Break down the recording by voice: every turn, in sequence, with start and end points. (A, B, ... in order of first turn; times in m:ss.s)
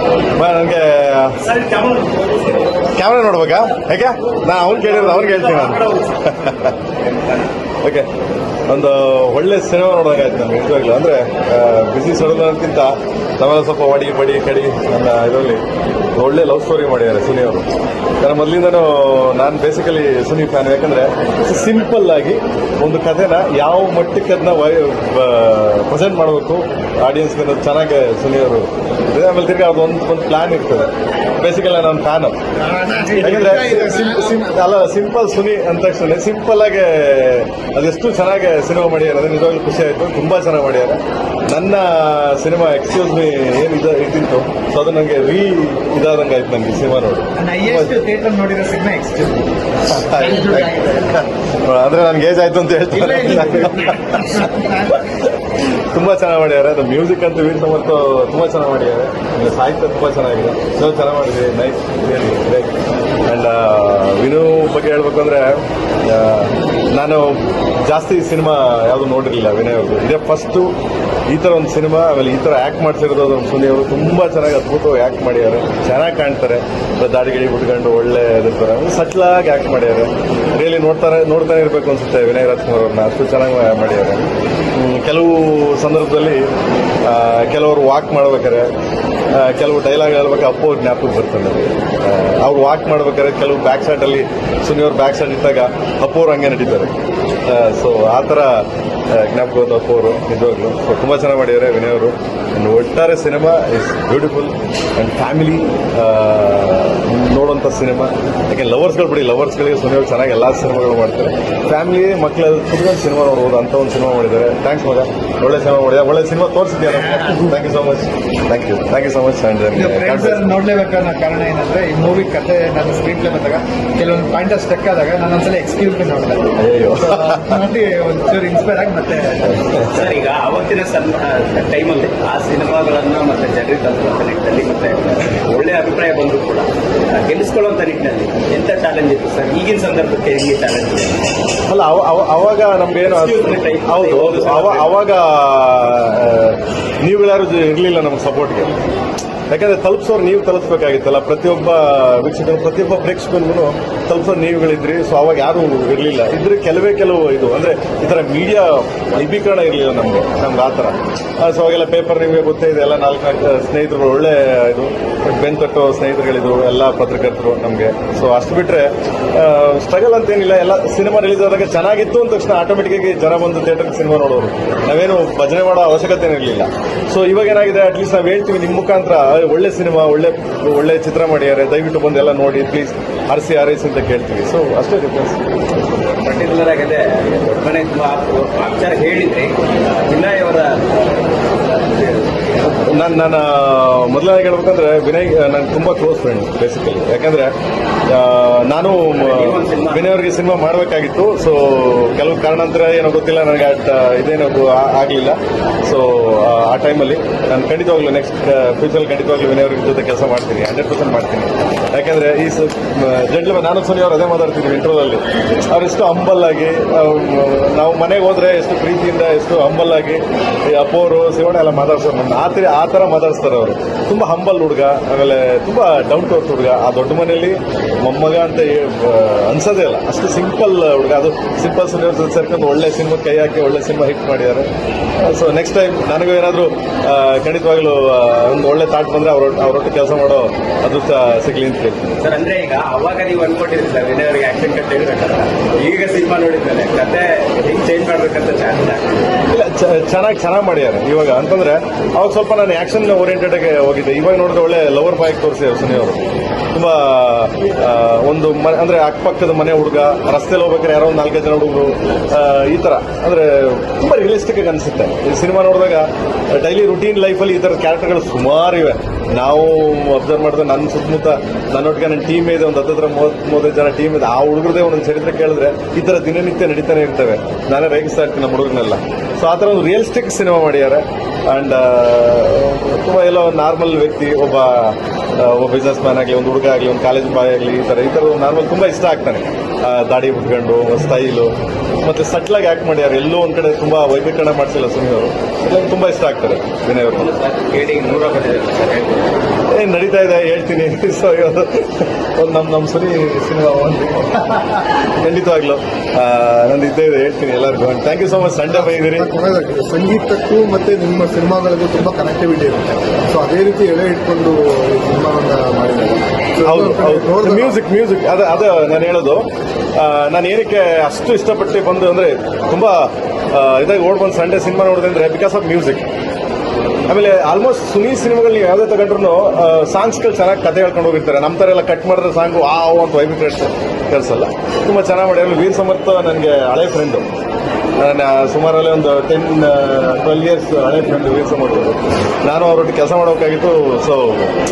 0:00.3-0:01.6 A
0:01.6-0:02.3 B
0:02.7-0:06.8 A
0:05.0-0:06.1 B
0:07.0-0:07.5 B
0:08.7-0:17.7 A
0:18.2-0:32.4 A
0:32.6-0:34.4 C
0:33.2-0:48.0 A
0:47.4-0:49.5 C
0:49.9-1:02.7 A
0:50.1-0:51.1 C
0:52.9-0:55.0 C
1:03.2-1:10.7 A
1:11.3-1:26.5 A
1:27.0-1:28.7 A
1:29.3-1:36.9 A
1:37.4-2:00.5 A
1:57.1-1:57.5 C
1:59.7-2:09.6 C
2:06.6-2:07.6 A
2:09.8-2:21.2 B
2:21.7-2:28.8 A
2:23.0-2:24.9 B
2:29.5-3:05.4 A
3:06.2-3:13.2 B
3:12.7-3:17.5 A
3:18.1-3:54.7 A
3:19.0-3:20.1 B
3:55.2-4:02.2 A
4:02.2-4:09.3 B
4:09.5-4:16.2 A
4:16.7-4:57.3 A
4:57.1-4:59.3 B
4:59.7-5:09.3 A
5:08.8-5:17.8 D
5:16.6-5:26.1 A
5:27.1-5:37.3 A
5:38.0-5:44.6 A